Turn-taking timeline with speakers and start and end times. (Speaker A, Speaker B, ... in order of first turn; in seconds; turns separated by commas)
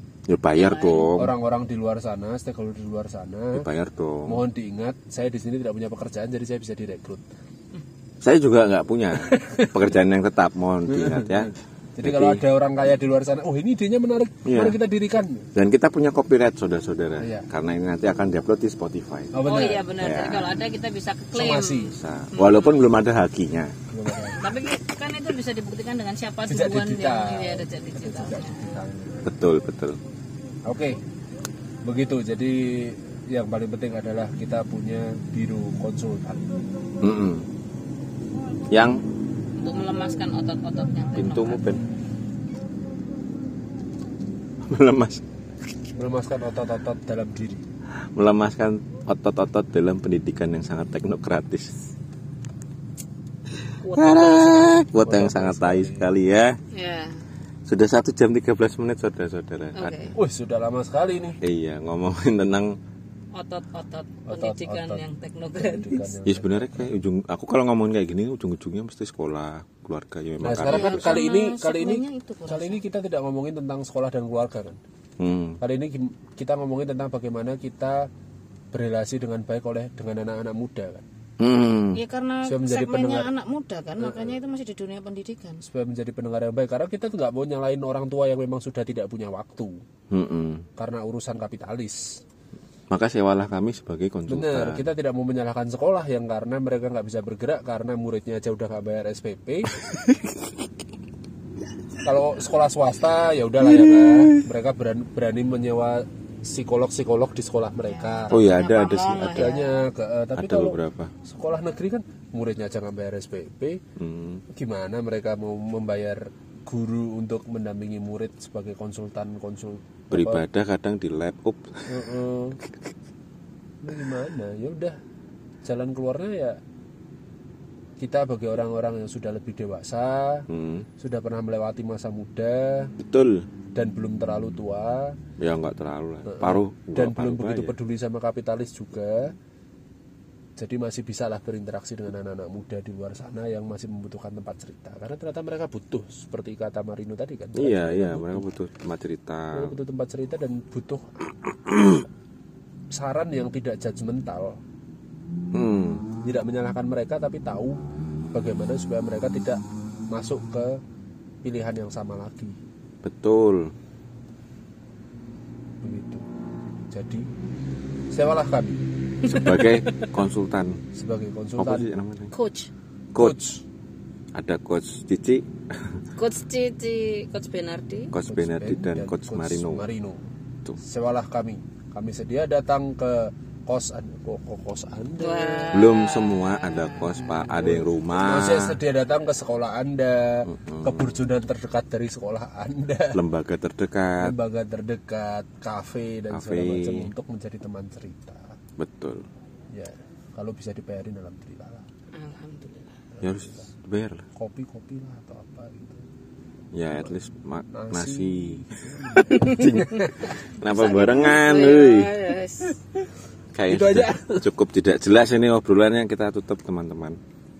Speaker A: 0.3-1.3, Speaker B: 0.5-1.1, Speaker C: 1.1-3.7, Speaker A: 3.5-4.4, Speaker C: 4.2-7.2, Speaker A: 8.2-12.4, Speaker C: 9.2-9.8, Speaker C: 10.9-15.5, Speaker A: 14.4-14.8, Speaker A: 15.5-19.4, Speaker C: 17.2-17.5, Speaker C: 19.3-19.9, Speaker B: 19.4-22.9, Speaker A: 19.9-20.6, Speaker C: 21.3-22.0, Speaker A: 21.9-23.7, Speaker C: 23.9-24.5, Speaker B: 24.3-28.8, Speaker C: 26.5-29.3, Speaker A: 29.2-30.0, Speaker C: 30.6-31.0, Speaker C: 31.8-36.6, Speaker A: 37.0-37.5, Speaker A: 38.7-39.0, Speaker B: 39.6-41.7, Speaker A: 41.1-41.8, Speaker A: 44.6-45.2, Speaker C: 45.9-47.6, Speaker A: 48.1-51.7, Speaker B: 53.8-54.8, Speaker A: 54.0-56.6, Speaker C: 54.9-56.1, Speaker B: 56.7-57.2, Speaker A: 57.6-60.1, Speaker B: 59.7-60.1, Speaker C: 60.1-61.4, Speaker A: 61.4-62.8, Speaker B: 63.3-66.1, Speaker C: 64.2-65.0, Speaker C: 65.5-66.9, Speaker A: 66.2-71.2, Speaker C: 70.4-74.8, Speaker B: 70.5-72.8, Speaker A: 75.2-75.6, Speaker C: 75.6-78.1, Speaker C: 78.7-81.0, Speaker A: 81.4-82.0, Speaker B: 81.9-85.6, Speaker C: 82.4-83.3, Speaker C: 84.0-84.3, Speaker C: 85.6-89.8, Speaker A: 90.1-90.7, Speaker C: 90.8-92.2, Speaker A: 92.9-94.8, Speaker C: 94.3-99.8, Speaker A: 99.8-100.5, Speaker C: 102.0-108.3, Speaker A: 103.6-104.4, Speaker B: 107.8-109.9, Speaker A: 108.3-109.6, Speaker C: 109.3-113.8, Speaker A: 110.3-111.1, Speaker A: 114.0-114.4, Speaker C: 114.5-120.4, Speaker A: 120.1-121.8, Speaker C: 121.9-122.6, Speaker A: 122.6-122.9, Speaker C: 123.8-125.0, Speaker C: 125.6-126.6, Speaker C: 128.0-130.5, Speaker A: 130.5-130.9, Speaker C: 131.0-132.9, Speaker A: 133.0-133.4, Speaker C: 133.7-135.2, Speaker A: 135.4-137.7, Speaker C: 136.2-139.3, Speaker C: 140.6-148.5, Speaker A: 147.5-149.7, Speaker C: 149.5-151.3, Speaker C: 152.9-154.6, Speaker A: 155.5-156.1, Speaker C: 156.2-157.8, Speaker C: 158.3-160.8, Speaker C: 161.4-162.6, Speaker A: 163.0-163.7, Speaker C: 165.8-166.2, Speaker C: 166.9-167.3, Speaker C: 168.1-168.8, Speaker B: 169.2-170.0, Speaker A: 169.2-170.8, Speaker C: 170.9-171.9, Speaker A: 171.6-172.3, Speaker B: 172.3-172.7, Speaker A: 173.1-173.6, Speaker C: 173.2-173.6, Speaker A: 174.3-175.9, Speaker B: 176.2-178.1, Speaker A: 178.1-179.8, Speaker C: 178.2-180.2, Speaker C: 180.8-185.8, Speaker B: 185.2-187.2, Speaker A: 185.7-188.8, Speaker C: 187.3-193.2, Speaker A: 190.4-191.2, Speaker A: 193.1-194.3, Speaker C: 194.2-198.6, Speaker A: 196.3-197.1, Speaker A: 198.8-199.2, Speaker C: 199.7-201.8, Speaker B: 202.1-202.9, Speaker C: 203.2-203.7, Speaker A: 203.2-204.2, Speaker C: 204.3-206.0, Speaker A: 206.7-212.1, Speaker C: 207.7-210.3, Speaker B: 209.3-209.7, Speaker B: 210.7-212.8, Speaker A: 213.5-217.2, Speaker C: 213.7-214.4